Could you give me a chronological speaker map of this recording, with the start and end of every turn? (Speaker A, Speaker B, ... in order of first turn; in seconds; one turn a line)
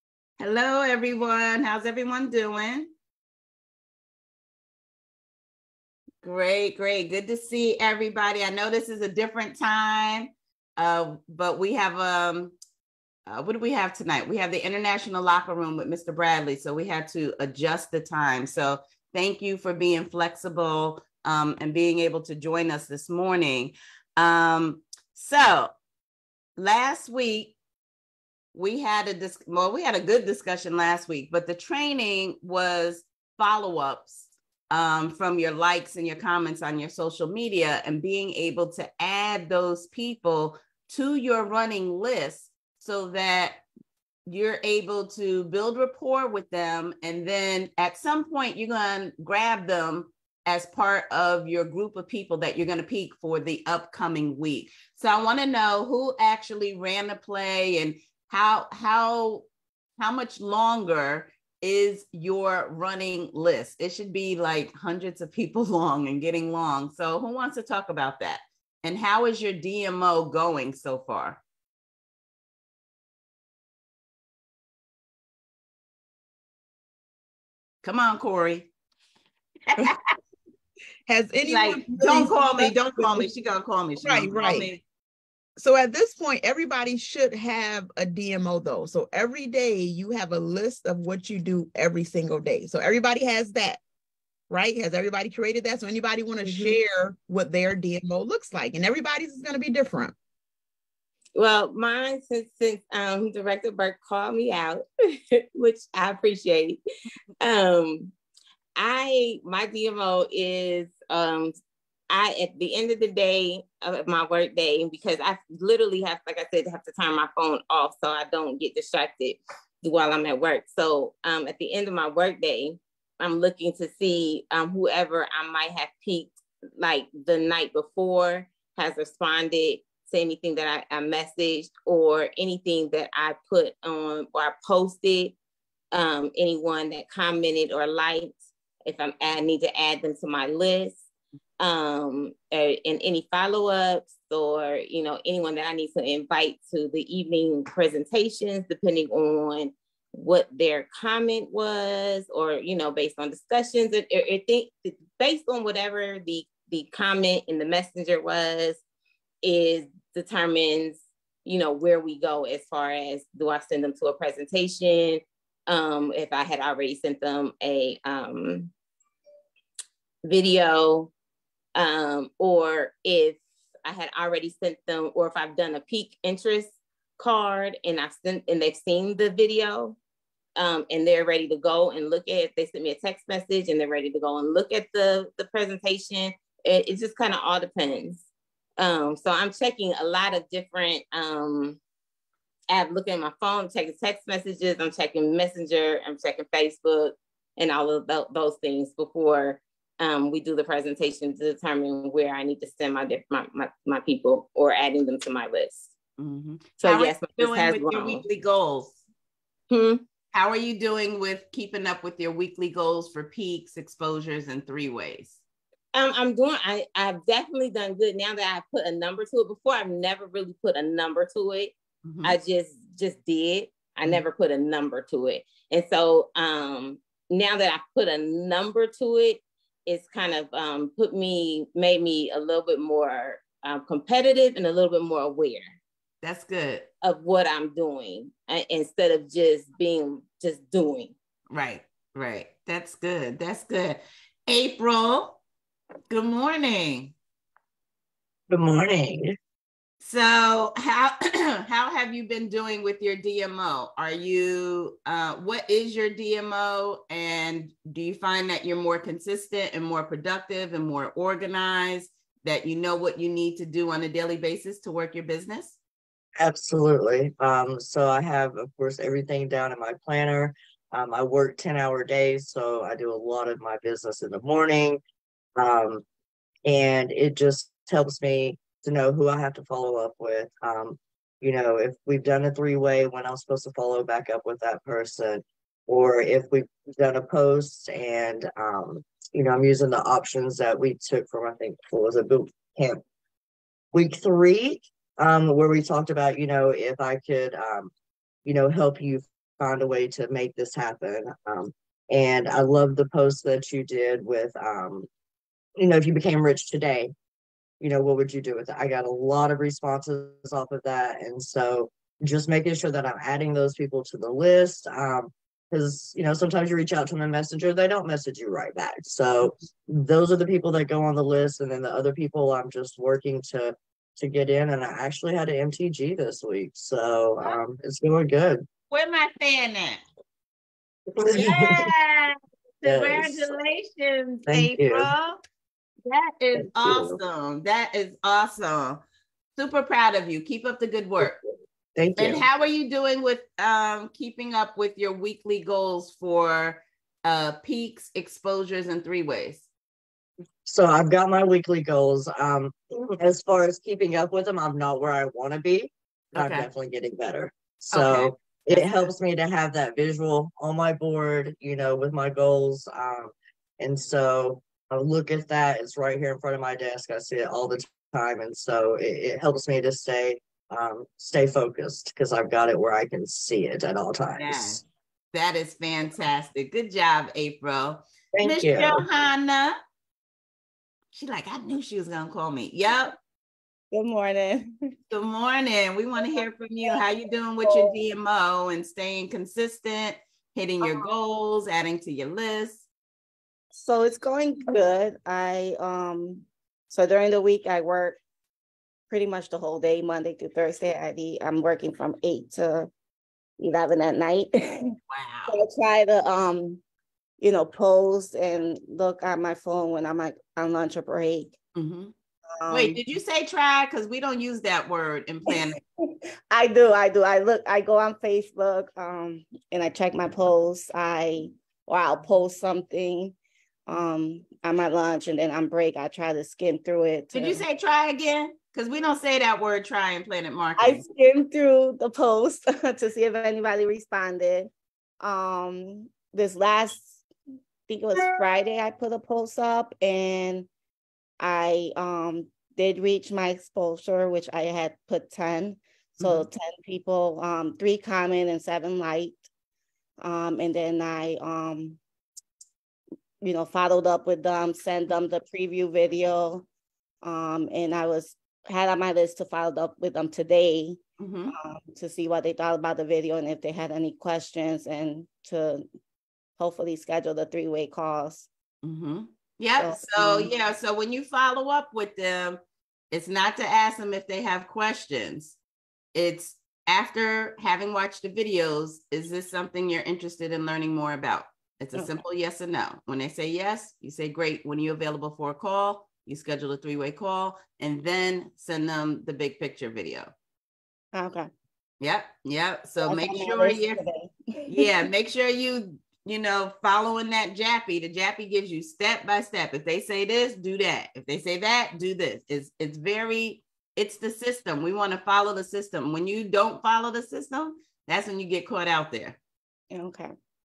Speaker A: 0.4-2.9
Speaker A: 6.2-12.5
Speaker A: 13.3-25.7
Speaker A: 26.6-27.6
Speaker A: 28.5-43.6
Speaker A: 44.3-59.5
Speaker A: 60.0-71.4
Speaker A: 77.8-78.7
Speaker A: 79.7-80.0
Speaker B: 81.1-83.3
Speaker A: 81.4-84.8
Speaker B: 84.0-84.7
Speaker B: 85.6-93.8
Speaker B: 94.5-100.1
Speaker C: 101.3-104.9
Speaker C: 105.4-106.8
Speaker C: 107.4-108.1
Speaker C: 108.8-111.5
Speaker C: 112.1-135.3
Speaker C: 135.9-141.0
Speaker C: 141.6-158.8
Speaker C: 159.4-168.7
Speaker C: 170.2-171.1
Speaker C: 171.8-180.0
Speaker C: 180.6-188.2
Speaker C: 188.8-191.8
Speaker C: 192.7-205.9
Speaker A: 206.2-209.0
Speaker C: 206.8-208.2
Speaker C: 209.7-210.0
Speaker A: 210.3-215.4
Speaker C: 215.9-235.8
Speaker A: 222.1-222.4
Speaker A: 236.2-236.9
Speaker C: 237.0-241.1
Speaker A: 241.5-245.4
Speaker A: 246.1-247.2
Speaker D: 248.5-249.4
Speaker A: 250.0-265.8
Speaker D: 266.4-275.0
Speaker D: 275.6-276.0
Speaker D: 276.7-293.0
Speaker D: 293.9-297.9
Speaker D: 298.4-305.1
Speaker D: 305.8-307.1
Speaker D: 307.8-328.6
Speaker A: 328.9-330.0
Speaker D: 331.2-331.9
Speaker A: 331.2-335.4
Speaker D: 332.8-333.5
Speaker D: 334.5-335.1
Speaker A: 336.1-339.0
Speaker D: 336.6-337.2
Speaker A: 339.6-341.4
Speaker D: 341.9-342.5
Speaker A: 342.2-349.7
Speaker D: 350.7-374.8
Speaker A: 356.4-356.7
Speaker A: 357.9-359.1
Speaker A: 374.4-379.8
Speaker D: 378.3-379.0
Speaker A: 381.1-383.1
Speaker C: 383.9-384.6
Speaker A: 385.1-392.9
Speaker C: 387.6-387.9
Speaker C: 393.8-398.2
Speaker C: 399.1-402.9
Speaker C: 403.6-404.9
Speaker A: 405.1-405.6
Speaker C: 405.5-406.8
Speaker C: 407.4-411.5
Speaker A: 411.8-412.1
Speaker C: 412.6-413.0
Speaker A: 412.7-415.8
Speaker C: 416.0-423.3
Speaker C: 423.9-427.6
Speaker A: 427.3-431.0
Speaker C: 430.8-434.7
Speaker C: 435.2-437.2
Speaker C: 437.9-440.7
Speaker C: 441.4-449.4
Speaker A: 446.2-446.5
Speaker C: 450.2-452.0
Speaker C: 453.4-456.6
Speaker C: 457.2-461.0
Speaker A: 461.2-461.6
Speaker C: 461.5-465.9
Speaker C: 466.6-468.5
Speaker A: 468.8-472.6
Speaker C: 469.8-470.5
Speaker A: 473.1-475.6
Speaker A: 476.1-490.3
Speaker C: 491.1-491.5
Speaker A: 492.0-494.0
Speaker C: 493.1-494.7
Speaker A: 494.7-509.4
Speaker C: 509.9-510.3